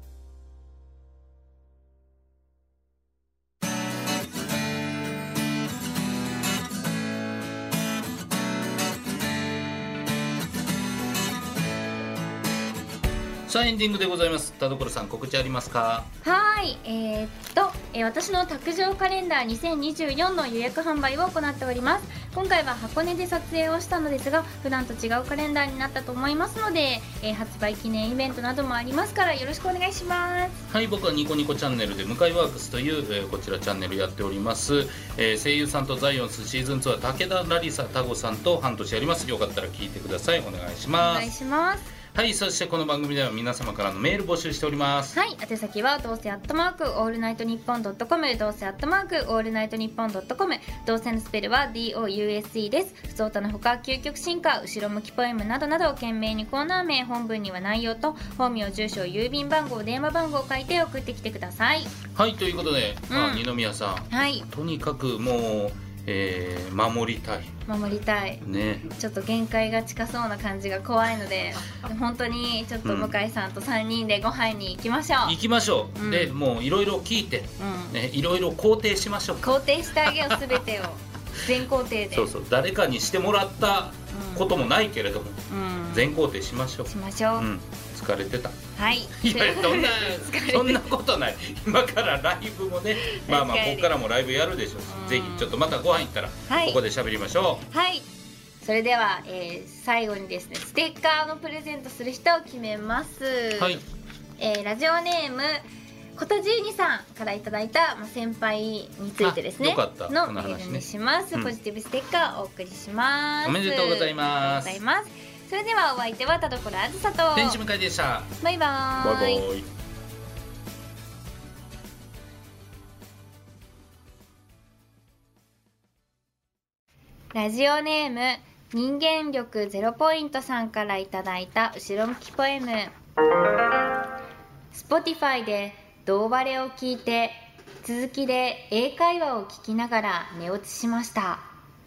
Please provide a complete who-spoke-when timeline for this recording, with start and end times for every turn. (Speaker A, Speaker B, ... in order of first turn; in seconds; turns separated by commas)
Speaker A: 13.5-16.1, Speaker B: 16.2-30.6, Speaker A: 30.7-41.3, Speaker B: 41.0-41.9, Speaker A: 42.1-45.2, Speaker B: 45.1-62.0, Speaker A: 62.1-67.5, Speaker B: 63.1-63.5, Speaker B: 64.1-64.5, Speaker B: 67.7-75.3, Speaker A: 68.4-68.9, Speaker A: 72.8-73.1, Speaker A: 75.2-80.6, Speaker B: 76.0-76.3, Speaker B: 77.6-78.0, Speaker B: 79.4-82.3, Speaker A: 82.1-88.7, Speaker B: 84.1-84.5, Speaker B: 85.5-86.1, Speaker B: 86.9-87.5, Speaker B: 88.8-90.8, Speaker A: 89.2-97.7, Speaker B: 93.0-93.9, Speaker B: 94.9-95.6, Speaker B: 96.5-96.8, Speaker B: 97.7-98.0, Speaker B: 98.6-103.8, Speaker A: 103.6-103.8, Speaker B: 104.4-105.6, Speaker B: 106.2-117.6, Speaker A: 109.2-111.5, Speaker A: 113.4-114.8, Speaker A: 117.3-118.3, Speaker B: 118.4-119.5, Speaker A: 119.0-119.6, Speaker B: 127.3-132.9, Speaker B: 134.7-141.4